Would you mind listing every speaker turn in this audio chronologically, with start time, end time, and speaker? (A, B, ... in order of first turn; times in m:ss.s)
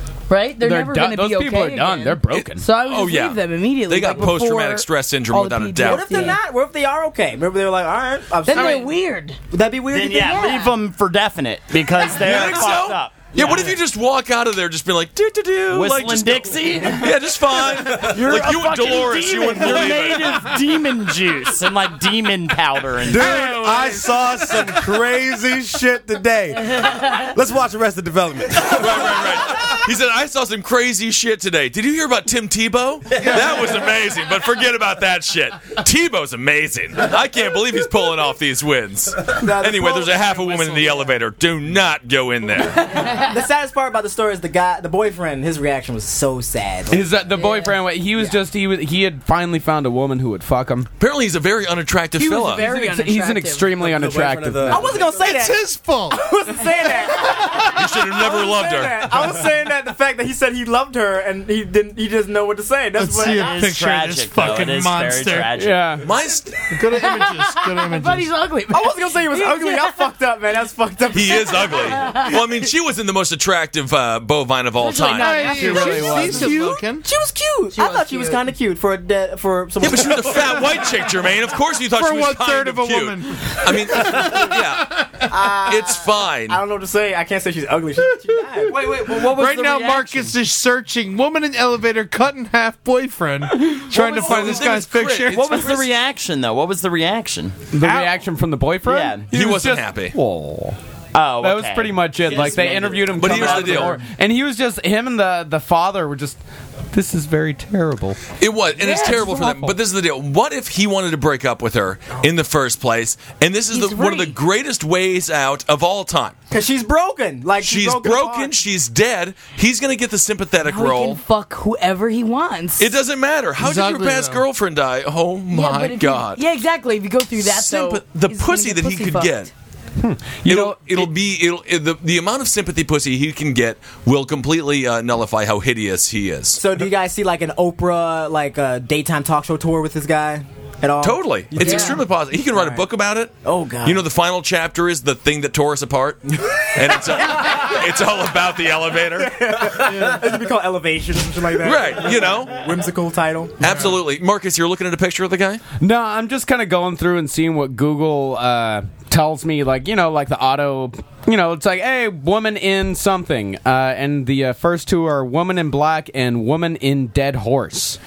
0:00.3-0:06.4 A
0:00.6-0:02.7 B
0:02.8-0:06.1 C
0:05.8-0:08.9 D
0:08.4-0:09.4 A
0:09.5-0:10.5 D
0:09.9-0:13.3 E
0:10.1-0:10.8 A
0:12.1-0:20.6 C
0:13.4-0:13.7 F
0:15.7-0:23.3 E
0:23.1-0:29.4 F
0:23.1-0:25.0 G
0:26.7-0:27.3 A
0:28.6-0:43.0 C
0:33.2-0:33.9 G
0:39.3-0:41.1 D
0:42.9-0:43.4 A
0:43.0-0:47.1 D
0:46.9-0:50.9 B
0:47.3-0:47.8 A
0:48.2-0:48.4 D
0:51.0-0:52.6 C
0:52.1-0:53.7 A
0:52.5-0:54.8 B
0:53.7-0:55.1 F
0:54.7-1:03.6 D
0:55.2-0:56.2 G
0:57.3-0:57.6 G
0:57.7-0:59.2 C
1:03.0-1:05.5 G
1:03.2-1:06.1 E
1:05.6-1:06.1 B
1:06.0-1:06.7 C
1:06.7-1:08.3 G
1:06.8-1:10.1 A
1:08.7-1:12.0 D
1:11.1-1:15.4 C
1:11.7-1:12.4 A
1:14.7-1:16.6 A
1:15.2-1:17.0 G
1:15.5-1:16.5 B
1:16.3-1:20.9 D
1:17.7-1:18.4 A
1:19.8-1:24.9 C
1:21.9-1:25.5 G
1:25.3-1:28.8 D
1:25.6-1:26.6 C
1:28.6-1:35.8 G
1:28.7-1:30.3 E
1:33.8-1:35.9 C
1:35.3-1:37.7 E
1:37.7-1:40.8 B
1:37.8-1:38.1 G
1:38.8-1:39.3 E
1:39.3-1:40.1 C
1:41.1-1:44.0 E
1:41.4-1:46.4 B
1:42.3-1:43.7 F
1:43.2-1:44.0 C
1:46.9-1:48.2 B
1:48.4-1:56.3 C
1:48.8-1:49.8 B
1:53.7-1:54.4 A
1:56.5-1:58.5 D
1:57.6-2:01.2 C
2:00.6-2:02.9 A
2:02.8-2:06.4 C
2:03.6-2:04.4 G
2:05.5-2:09.5 A
2:07.4-2:09.5 C
2:10.0-2:11.1 B
2:10.4-2:16.6 C
2:16.5-2:22.8 D
2:21.0-2:29.6 C
2:21.6-2:22.0 A
2:23.4-2:24.1 D
2:26.5-2:27.7 D
2:29.2-2:33.6 D
2:31.6-2:32.6 C
2:33.6-2:35.6 C
2:33.6-2:33.9 G
2:35.8-2:48.0 B